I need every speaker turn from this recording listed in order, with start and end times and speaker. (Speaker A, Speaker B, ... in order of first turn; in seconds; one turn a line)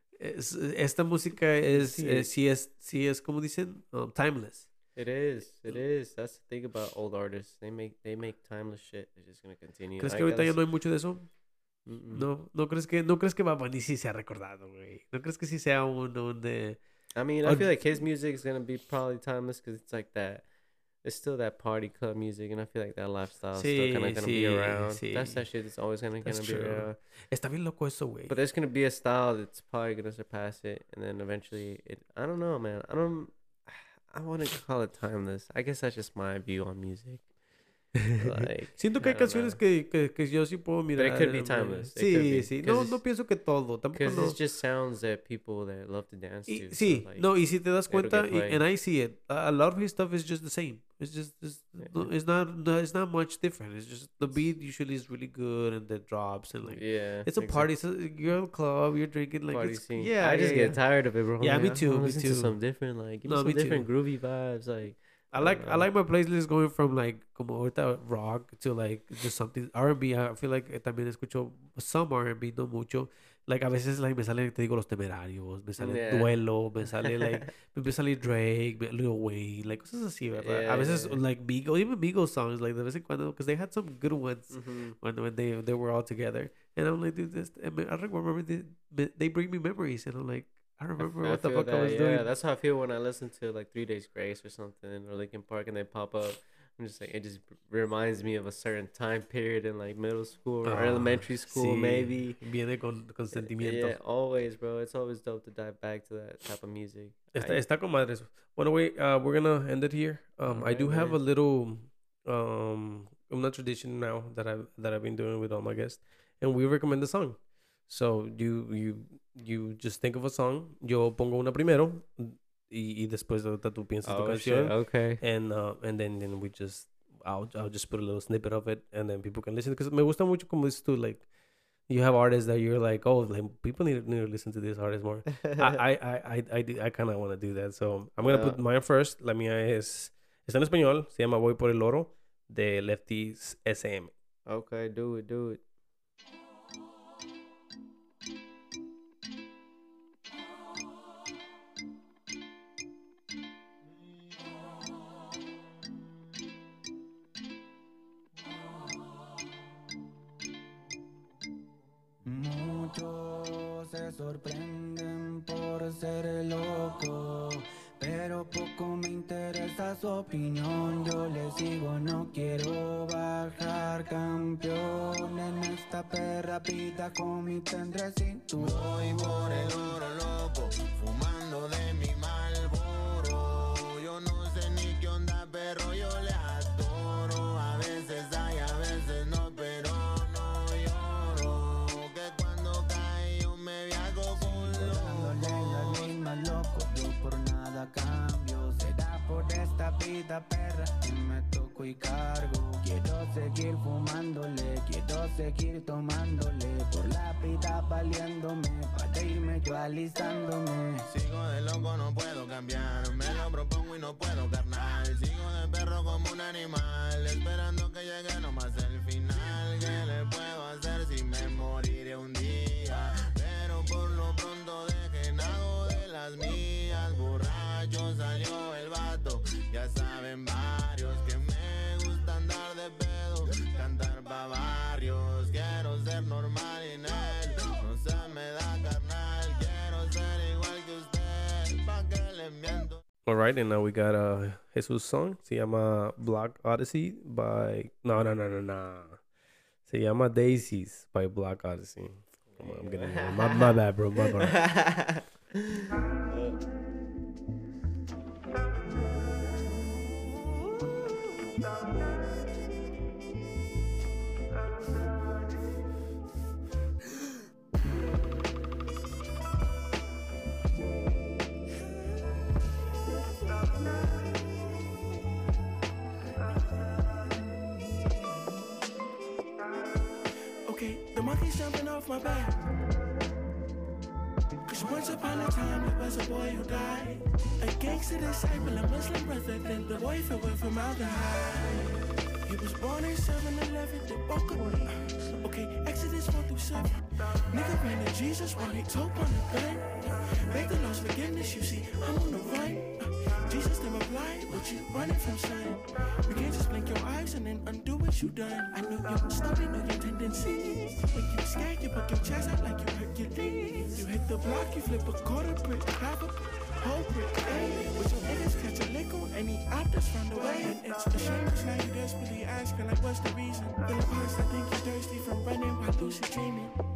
Speaker A: 0.2-4.7
Speaker B: 1.7-2.3
Speaker B: 4.9-10.6
Speaker A: 10.0-11.3
Speaker B: 11.8-12.3
Speaker A: 12.1-16.8
Speaker B: 17.1-20.4
Speaker B: 21.0-27.0
Speaker A: 23.5-25.4
Speaker A: 26.2-28.3
Speaker B: 28.3-37.3
Speaker A: 38.0-44.4
Speaker B: 38.1-39.6
Speaker B: 40.9-43.0
Speaker B: 43.9-47.3
Speaker A: 46.5-60.8
Speaker B: 47.9-48.6
Speaker B: 51.8-52.1
Speaker B: 56.6-57.7
Speaker B: 59.5-65.9
Speaker A: 61.4-62.5
Speaker A: 63.3-63.9
Speaker A: 65.3-92.2
Speaker B: 75.8-76.4
Speaker B: 77.0-77.4
Speaker B: 80.4-81.2
Speaker B: 84.5-85.0
Speaker B: 91.0-102.4
Speaker A: 100.6-104.0
Speaker B: 103.3-107.6
Speaker A: 107.3-131.3
Speaker B: 110.5-111.2
Speaker B: 124.0-125.2
Speaker A: 131.9-144.1
Speaker B: 135.4-135.8
Speaker B: 138.2-138.6
Speaker B: 144.5-145.6
Speaker C: 162.2-179.9
Speaker D: 178.6-196.1
Speaker C: 194.4-211.1
Speaker D: 211.1-243.0
Speaker A: 243.2-249.2
Speaker A: 249.9-254.7
Speaker B: 252.5-253.8
Speaker B: 254.4-256.6
Speaker E: 280.6-282.7
Speaker E: 284.6-326.8